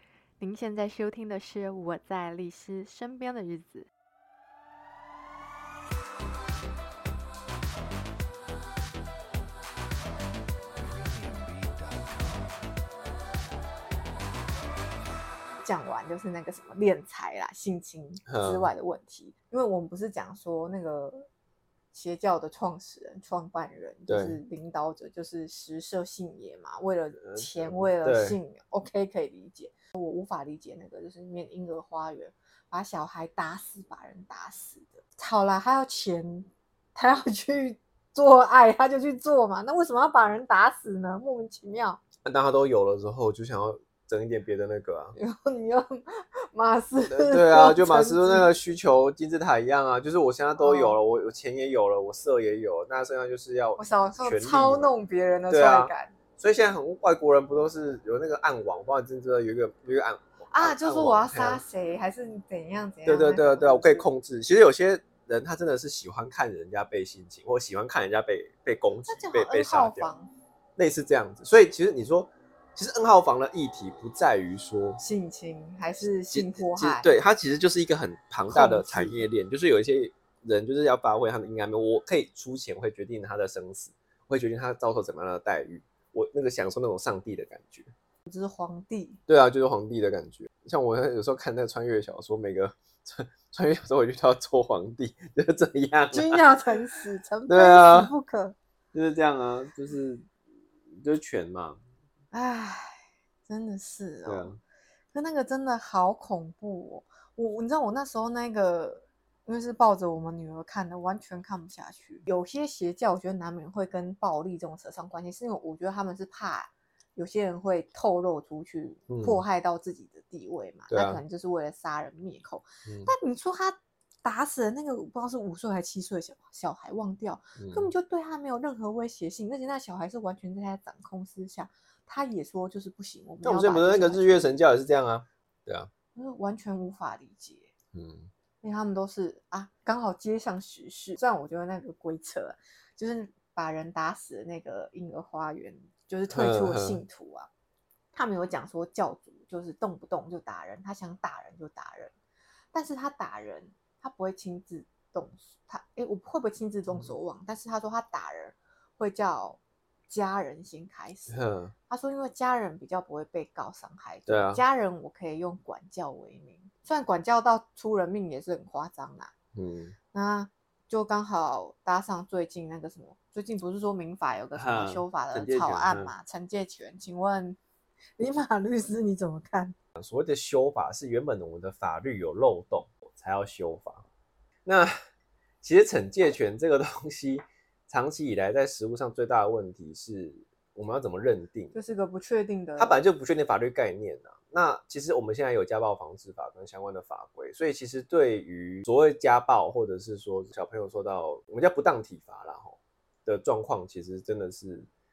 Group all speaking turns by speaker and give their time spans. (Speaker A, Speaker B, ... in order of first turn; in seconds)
Speaker A: 0.4-3.9, 15.6-21.2, 21.9-42.0, 45.1-48.5, 50.6-51.0, 53.8-56.1, 60.5-64.0, 69.0-70.3, 75.0-77.1, 78.5-79.2, 88.2-89.2, 96.1-98.5, 102.3-104.5, 105.1-134.6, 136.1-137.7, 138.6-147.5, 148.1-152.1, 152.7-161.3, 161.9-169.3, 170.1-177.6, 178.2-179.7, 191.7-193.0
Speaker B: 18.3-18.7, 24.1-24.4, 27.2-28.4, 42.2-45.1, 47.1-54.9, 55.5-61.6, 63.0-70.1, 70.8-75.0, 76.3-87.9, 89.3-96.4, 97.5-98.1, 98.9-100.3, 101.0-101.8, 104.2-104.6, 119.1-119.4, 120.9-121.2, 122.8-123.1, 127.6-127.9, 133.4-135.9, 137.9-138.3, 146.3-147.0, 161.3-161.7, 164.3-164.6, 169.5-169.9, 174.5-176.1, 180.0-184.0, 184.6-184.9, 185.6-191.7, 192.8-204.9